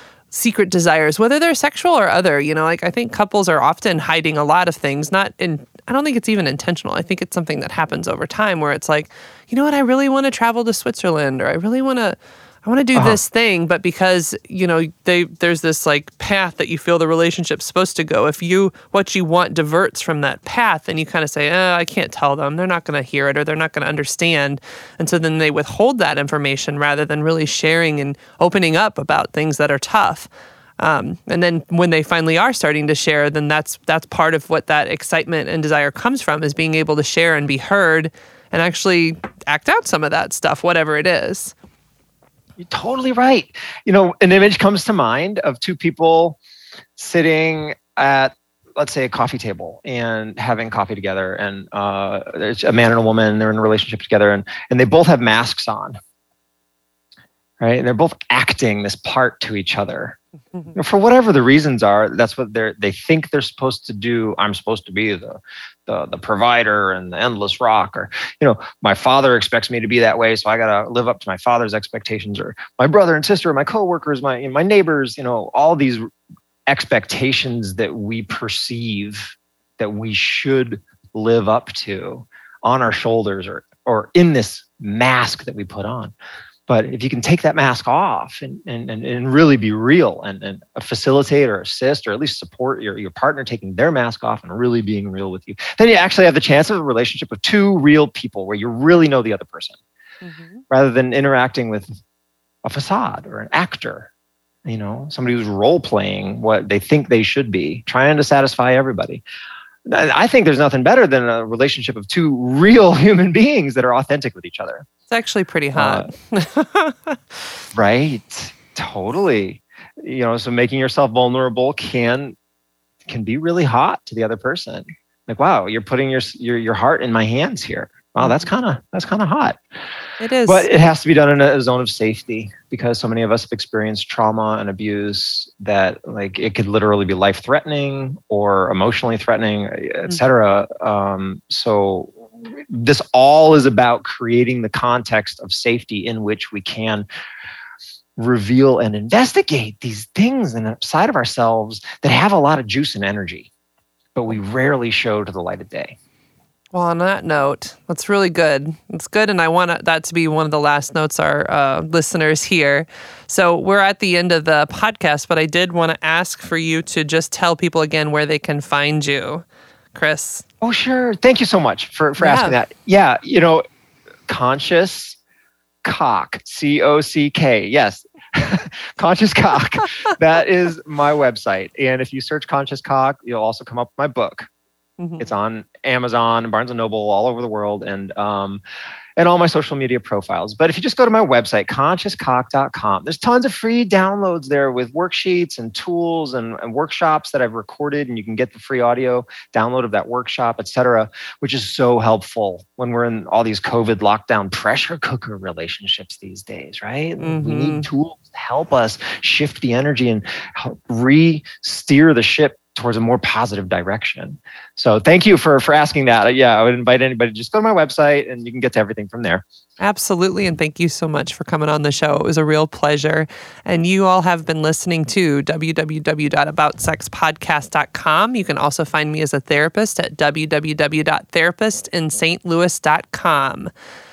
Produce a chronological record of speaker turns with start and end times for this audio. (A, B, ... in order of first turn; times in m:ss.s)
0:00.3-0:41.6 A
0:13.0-0:13.2 B
0:42.6-0:46.4 B
0:47.0-0:56.0 B
0:57.6-1:00.2 B
1:00.7-1:16.0 B
1:16.7-1:26.1 B
1:26.7-1:39.8 B
1:40.2-1:40.6 A
1:40.7-1:41.9 B
1:42.6-1:44.1 B
1:44.7-1:49.2 B
1:49.8-1:54.9 B
1:55.1-1:57.4 A
1:55.7-1:56.1 B
1:57.7-2:02.4 B
2:03.1-2:09.6 B
2:08.2-2:08.5 A
2:10.2-2:10.7 A
2:10.5-2:27.1 B
2:28.2-2:33.5 B
2:34.2-2:36.0 B
2:36.7-2:50.4 A
2:50.6-2:53.6 B
2:52.2-2:52.6 A
2:54.3-2:55.2 B
2:55.8-3:04.5 B
3:05.0-3:05.3 A
3:05.2-3:08.6 B
3:09.2-3:39.4 B
3:27.2-3:27.9 A
3:39.8-3:53.7 A